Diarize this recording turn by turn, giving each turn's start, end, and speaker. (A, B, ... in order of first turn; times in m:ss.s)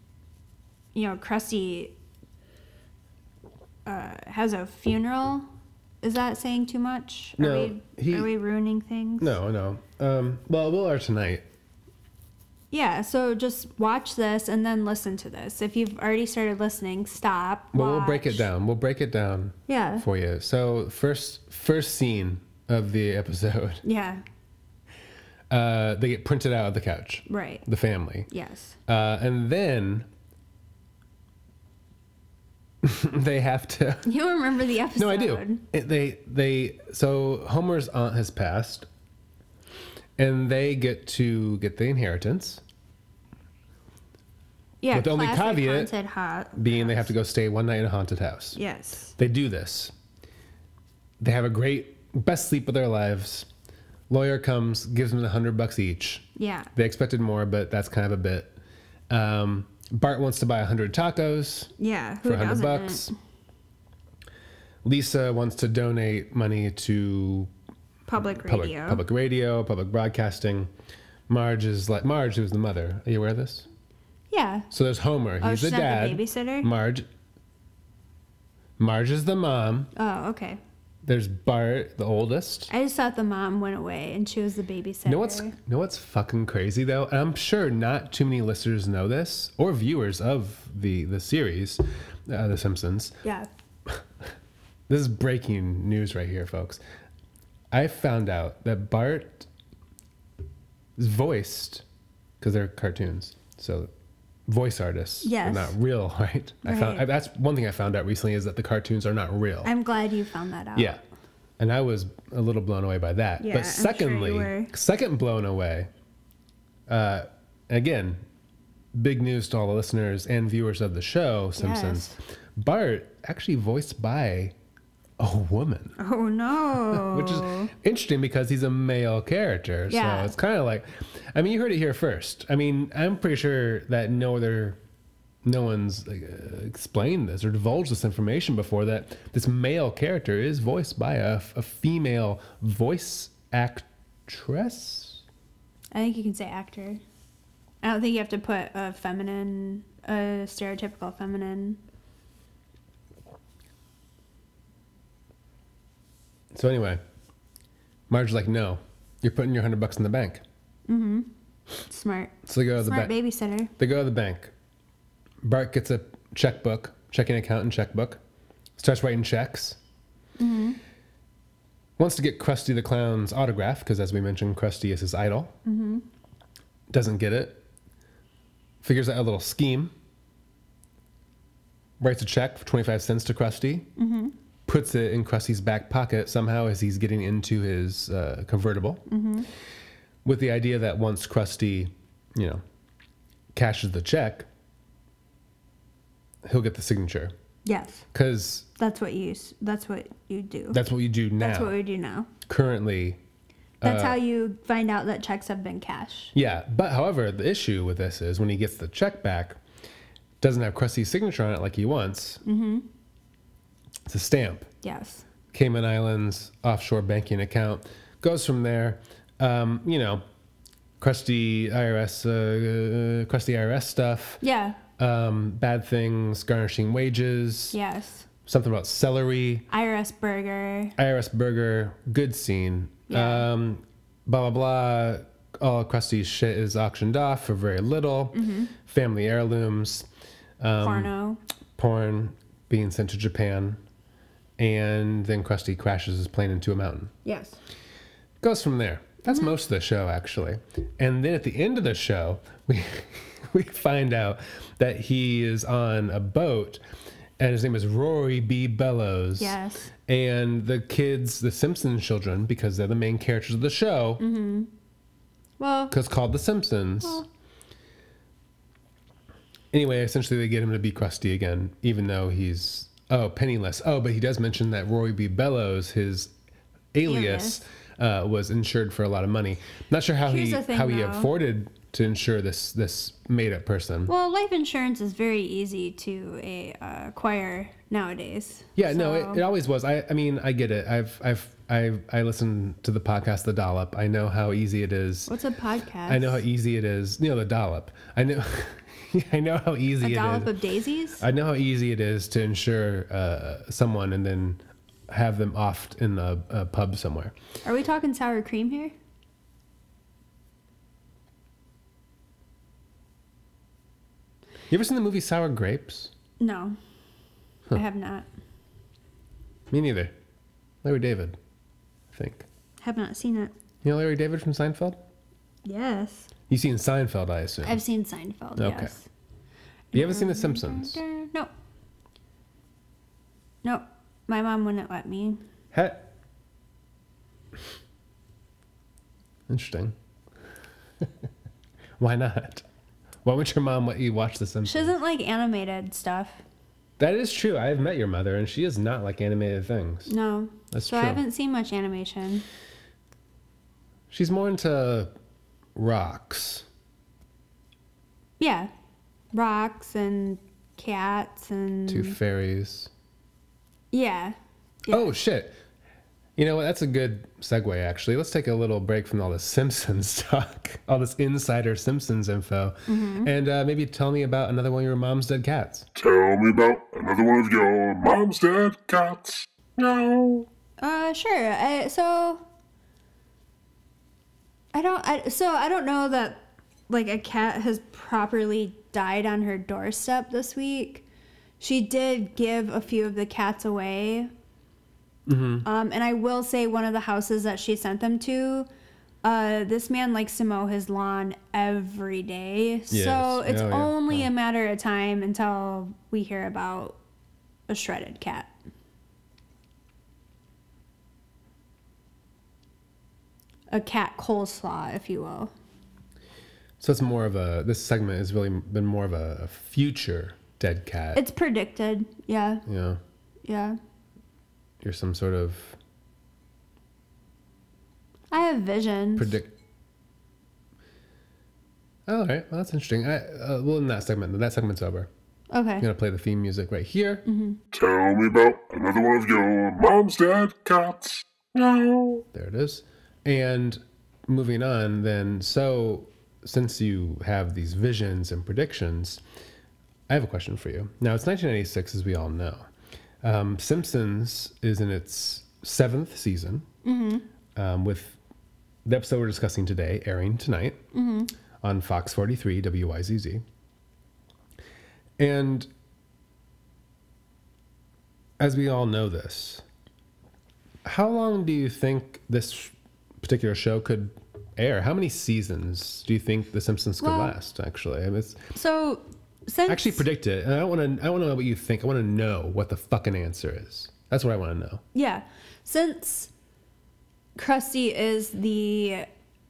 0:00.9-0:01.9 A
0:03.8-0:05.5 A
0:06.0-0:09.4 A
0:07.4-0:08.3 B
0:09.2-0:11.4 B
0:12.7-0:18.5 A
0:17.7-0:23.8 B
0:19.7-0:20.0 A
0:23.8-0:24.2 A
0:25.5-0:28.3 B
0:27.3-0:27.6 A
0:28.3-0:28.8 A
0:28.9-0:30.1 B
0:32.8-0:34.1 B
0:34.0-0:35.6 A
0:34.9-0:38.9 B
0:40.2-0:42.6 B
0:44.8-0:47.1 A
0:44.9-0:45.9 B
0:46.5-0:48.6 B
0:48.5-0:49.1 A
0:49.2-0:49.9 B
0:51.2-0:53.5 B
0:54.1-0:58.6 B
0:56.4-0:56.7 A
0:59.1-1:01.7 B
1:01.8-1:03.1 A
1:02.2-1:03.1 B
1:04.8-1:07.5 B
1:08.1-1:09.0 A
1:08.2-1:10.7 B
1:11.3-1:13.7 B
1:14.3-1:14.7 A
1:14.7-1:17.1 B
1:15.4-1:16.7 A
1:18.8-1:19.9 B
1:19.9-1:20.6 A
1:21.0-1:22.7 B
1:22.7-1:25.6 A
1:25.0-1:33.2 B
1:33.2-1:33.5 A
1:34.9-1:36.8 B
1:37.7-1:39.5 B
1:41.0-1:41.8 B
1:42.4-1:43.9 B
1:44.5-1:49.7 B
1:45.2-1:45.7 A
1:46.6-1:47.0 A
1:49.6-1:51.0 A
1:50.7-1:51.0 B
1:51.6-1:55.9 B
1:53.4-1:54.7 A
1:56.9-1:58.2 B
1:58.9-2:04.5 B
2:01.6-2:02.2 A
2:05.2-2:06.0 B
2:06.0-2:07.7 A
2:06.8-2:14.8 B
2:09.9-2:10.3 A
2:15.4-2:25.2 B
2:25.9-2:27.0 A
2:27.8-2:31.8 A
2:36.5-2:37.0 B
2:38.1-2:40.4 B
2:40.9-2:41.3 A
2:41.9-2:43.7 A
2:42.4-2:43.1 B
2:43.8-2:44.5 B
2:45.4-2:48.2 B
2:48.8-2:49.8 B
2:50.4-2:50.8 A
2:52.0-2:55.5 B
2:55.6-2:56.0 A
2:56.9-2:57.6 B
2:58.8-2:59.9 B
3:02.0-3:03.9 B
3:04.0-3:04.3 A
3:04.7-3:09.0 B
3:09.1-3:09.5 A
3:10.2-3:12.6 B
3:13.5-3:14.5 B
3:16.4-3:17.3 B
3:17.6-3:18.0 A
3:18.1-3:18.7 B
3:18.8-3:20.8 A
3:20.7-3:21.8 B
3:21.4-3:22.3 A
3:22.5-3:23.2 B
3:23.8-3:24.2 B
3:23.8-3:26.3 A
3:26.3-3:29.6 B
3:30.4-3:32.4 B
3:32.4-3:32.9 A
3:34.0-3:34.7 B
3:34.8-3:35.2 A
3:35.5-3:40.2 B
3:41.0-3:44.4 B
3:44.4-3:44.8 A
3:45.0-3:47.8 B
3:47.7-3:48.3 A
3:48.4-3:49.6 B
3:49.7-3:51.0 A
3:51.0-4:00.1 B
3:53.1-3:53.5 A
3:58.3-3:58.7 A
4:00.6-4:01.1 B
4:00.8-4:01.4 A
4:01.8-4:03.8 B
4:04.6-4:07.1 B
4:07.2-4:07.6 A
4:08.4-4:16.8 B
4:17.4-4:24.2 B
4:19.4-4:19.9 A
4:24.2-4:24.7 A
4:25.6-4:25.9 A
4:25.9-4:27.2 B
4:29.7-4:36.3 B
4:36.9-4:44.1 B
4:37.0-4:37.6 A
4:40.2-4:41.3 A
4:44.1-4:49.4 A
4:48.8-4:55.3 B
4:55.3-4:56.4 A
4:56.1-5:00.5 B
5:00.0-5:01.2 A
5:01.2-5:07.3 B
5:07.6-5:08.9 A
5:14.7-5:16.1 B
5:16.4-5:16.8 A
5:17.7-5:18.2 A
5:19.7-5:20.1 B
5:20.8-5:21.4 B
5:22.1-5:22.4 B
5:22.8-5:23.5 A
5:23.8-5:25.0 B
5:25.6-5:26.3 A
5:26.5-5:27.8 B
5:27.6-5:29.1 A
5:28.6-5:28.9 B
5:29.9-5:31.5 A
5:29.9-5:31.0 B
5:33.6-5:35.4 A
5:35.7-5:36.0 B
5:39.5-5:39.9 B
5:42.0-5:42.6 B
5:43.2-5:44.9 B
5:44.6-5:46.4 A
5:47.0-5:50.1 B
5:50.1-5:52.4 A
5:50.7-5:51.2 B
5:54.1-5:55.1 B
5:55.7-5:56.6 B
5:58.4-5:58.7 A
5:59.3-6:02.2 A
6:01.9-6:02.9 B
6:03.9-6:05.1 A
6:04.9-6:05.6 B
6:06.4-6:15.9 B
6:12.9-6:13.3 A
6:16.0-6:20.5 C
6:20.8-6:22.4 A
6:24.7-6:31.0 A
6:31.6-6:34.3 A
6:35.3-6:35.6 B
6:35.6-6:38.7 A
6:39.2-6:47.0 A
6:42.9-6:44.3 B
6:47.7-6:48.5 A
6:53.7-6:55.5 A
6:56.8-7:01.2 B
7:01.1-7:02.6 A
7:02.6-7:03.0 B
7:03.4-7:03.8 A
7:04.8-7:05.8 B
7:08.3-7:09.4 A
7:09.2-7:09.5 B
7:12.1-7:15.1 B
7:15.5-7:15.9 A
7:15.8-7:17.2 B
7:17.2-7:17.6 A
7:17.7-7:22.2 C
7:22.3-7:29.2 B
7:30.1-7:32.7 B
7:33.2-7:36.7 B
7:36.8-7:37.2 A
7:37.5-7:38.2 B
7:38.8-7:40.8 B
7:40.9-7:41.3 A
7:41.6-7:43.4 B
7:45.2-7:45.7 B
7:48.4-7:49.6 B
7:50.8-7:58.5 B
7:57.0-7:57.4 A
7:58.5-8:00.0 A
7:59.7-8:04.8 B
8:04.9-8:06.3 A
8:07.4-8:09.1 A